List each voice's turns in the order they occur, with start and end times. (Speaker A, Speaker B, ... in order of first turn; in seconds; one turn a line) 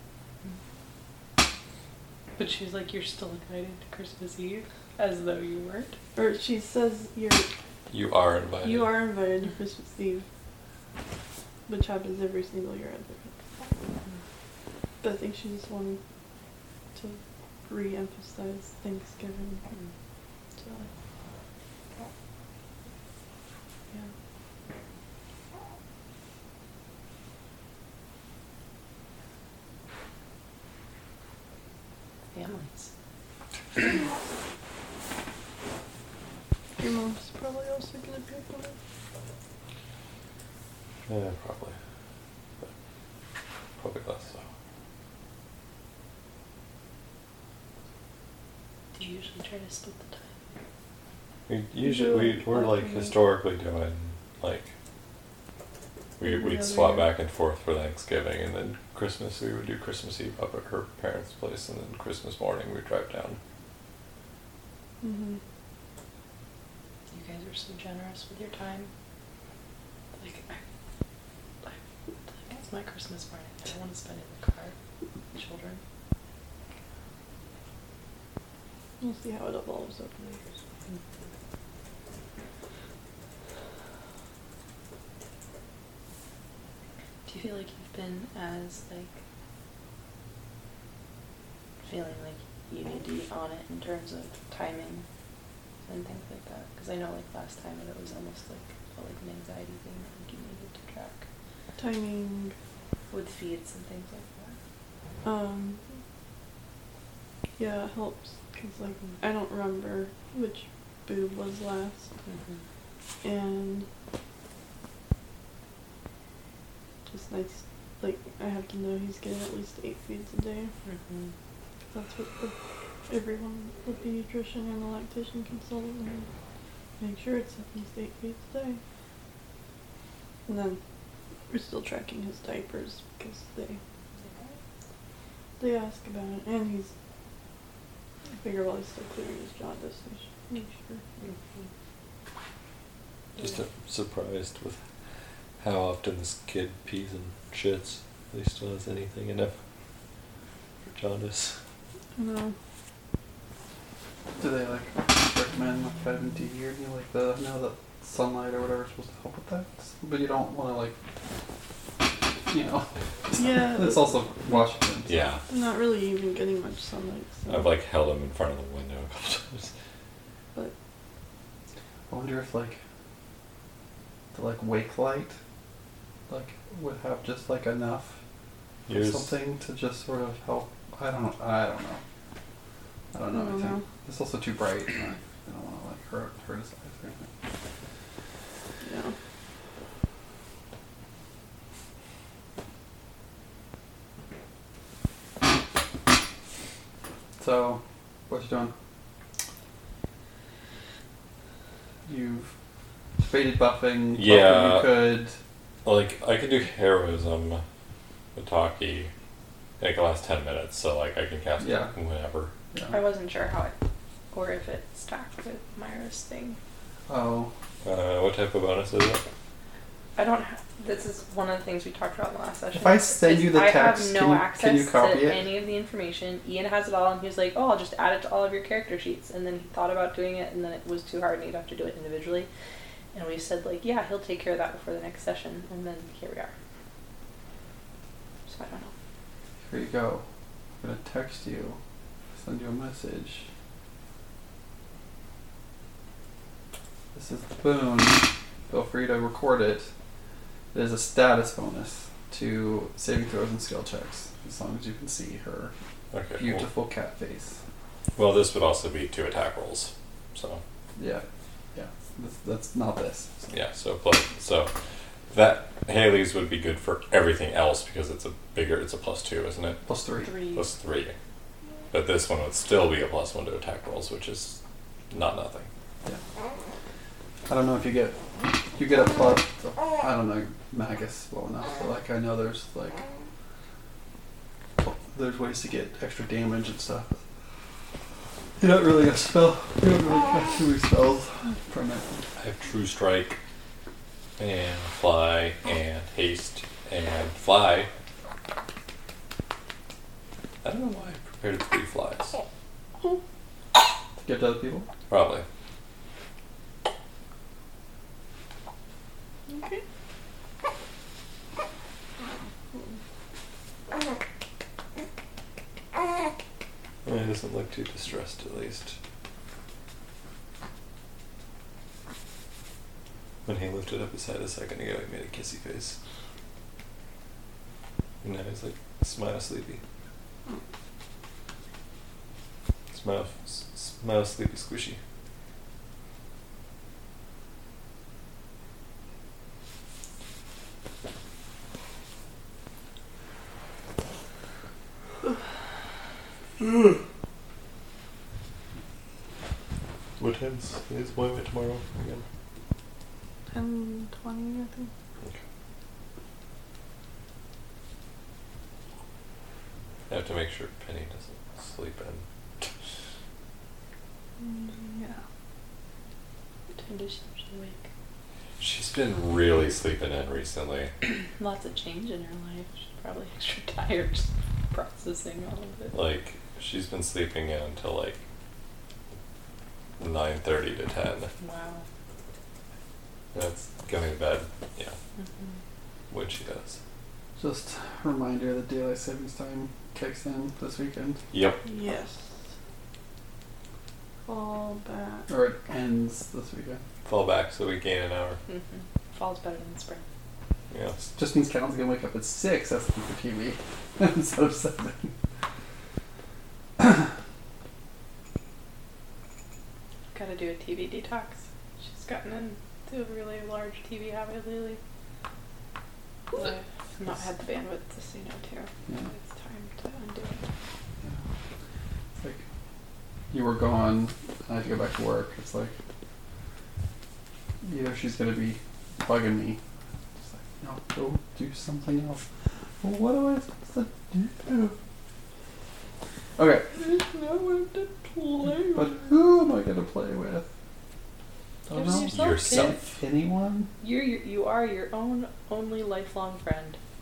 Speaker A: 2.4-6.0
Speaker B: 6.2-7.5
Speaker C: 7.9-9.0
Speaker B: 8.6-10.2
Speaker B: 11.7-13.3
Speaker B: 15.0-16.0
Speaker B: 16.9-19.6
Speaker B: 20.6-20.9
Speaker A: 32.3-32.9
Speaker B: 36.8-38.8
Speaker C: 41.1-41.8
Speaker C: 43.8-44.5
Speaker A: 49.0-50.3
Speaker C: 51.5-54.7
Speaker B: 51.8-53.1
Speaker C: 56.2-63.4
Speaker B: 56.2-57.1
Speaker B: 65.0-65.4
Speaker A: 67.1-68.9
Speaker A: 70.2-70.6
Speaker A: 71.6-74.8
Speaker A: 75.3-75.8
Speaker B: 79.0-80.4
Speaker A: 87.3-89.2
Speaker A: 91.8-95.1
Speaker A: 95.9-101.3
Speaker B: 101.8-102.5
Speaker A: 103.1-104.6
Speaker B: 105.2-105.8
Speaker B: 107.6-112.1
Speaker A: 112.3-112.6
Speaker B: 113.2-113.9
Speaker B: 117.1-120.7
Speaker A: 120.9-121.3
Speaker B: 121.9-122.5
Speaker B: 123.1-126.3
Speaker B: 127.0-128.8
Speaker B: 130.5-130.8
Speaker B: 131.5-133.8
Speaker B: 135.6-136.9
Speaker B: 138.3-141.0
Speaker A: 141.2-141.7
Speaker C: 143.4-144.8
Speaker C: 145.6-149.6
Speaker C: 150.9-151.6
Speaker B: 152.2-152.6
Speaker D: 154.4-160.9
Speaker D: 162.5-165.1
Speaker B: 163.4-164.2
Speaker C: 165.1-165.4
Speaker B: 165.5-167.7
Speaker C: 167.5-169.7
Speaker D: 172.1-172.8
Speaker D: 174.3-175.4
Speaker D: 176.3-178.2
Speaker C: 178.9-179.3
Speaker D: 178.9-182.0
Speaker D: 183.1-187.3
Speaker B: 183.3-183.8
Speaker B: 188.8-189.2
Speaker D: 197.4-198.7
Speaker D: 202.1-202.5
Speaker D: 203.2-205.4
Speaker C: 204.2-205.0
Speaker C: 205.8-207.6
Speaker C: 208.3-209.1
Speaker C: 209.8-212.5
Speaker D: 211.6-211.9
Speaker D: 212.7-213.0
Speaker A: 212.9-213.7
Speaker A: 214.3-216.6
Speaker D: 217.1-217.5
Speaker C: 217.8-219.2
Speaker A: 220.2-232.5
Speaker D: 222.7-225.4
Speaker A: 233.1-236.5
Speaker A: 238.5-238.9
Speaker D: 239.7-240.2
Speaker D: 240.8-241.8
Speaker D: 242.4-243.5
Speaker D: 247.1-249.9
Speaker D: 250.7-255.7
Speaker C: 256.1-256.7
Speaker D: 256.4-257.6
Speaker C: 258.2-260.6
Speaker D: 261.0-263.5
Speaker C: 263.5-264.7
Speaker C: 265.3-269.8
Speaker D: 269.9-270.4
Speaker A: 270.2-270.6
Speaker C: 270.5-271.1
Speaker C: 271.9-274.6
Speaker C: 275.1-275.7
Speaker D: 277.5-278.2
Speaker D: 278.8-283.0
Speaker D: 284.8-287.1
Speaker D: 288.6-292.3
Speaker C: 292.4-293.4
Speaker C: 294.4-297.9
Speaker C: 300.6-302.4
Speaker D: 304.2-304.9
Speaker C: 305.1-305.4
Speaker B: 309.5-309.8
Speaker C: 317.1-319.0
Speaker C: 323.5-326.0
Speaker C: 328.2-329.8
Speaker C: 332.9-335.0
Speaker C: 346.6-347.0
Speaker C: 350.2-352.2
Speaker B: 353.5-354.9
Speaker C: 360.1-362.7
Speaker B: 364.4-365.2
Speaker A: 366.8-367.9
Speaker C: 368.6-370.9
Speaker A: 371.4-375.9
Speaker C: 375.9-378.2
Speaker C: 380.0-381.3
Speaker A: 381.4-381.9
Speaker C: 383.3-385.0
Speaker A: 385.2-385.6
Speaker C: 386.1-386.8
Speaker D: 387.4-391.2
Speaker C: 391.3-391.6
Speaker B: 391.6-392.3
Speaker B: 394.3-395.3
Speaker D: 395.3-396.8
Speaker C: 397.1-398.4
Speaker A: 398.5-400.0
Speaker C: 400.7-401.1
Speaker D: 401.2-405.1
Speaker D: 406.8-407.1
Speaker A: 410.1-414.8
Speaker A: 416.3-420.5
Speaker D: 423.3-425.7
Speaker D: 427.6-429.6
Speaker D: 430.2-432.2
Speaker D: 432.8-434.8
Speaker D: 436.4-436.7
Speaker A: 436.8-439.1
Speaker D: 438.7-440.5
Speaker D: 441.7-443.7
Speaker A: 441.7-442.8
Speaker C: 441.8-442.9
Speaker A: 443.8-446.8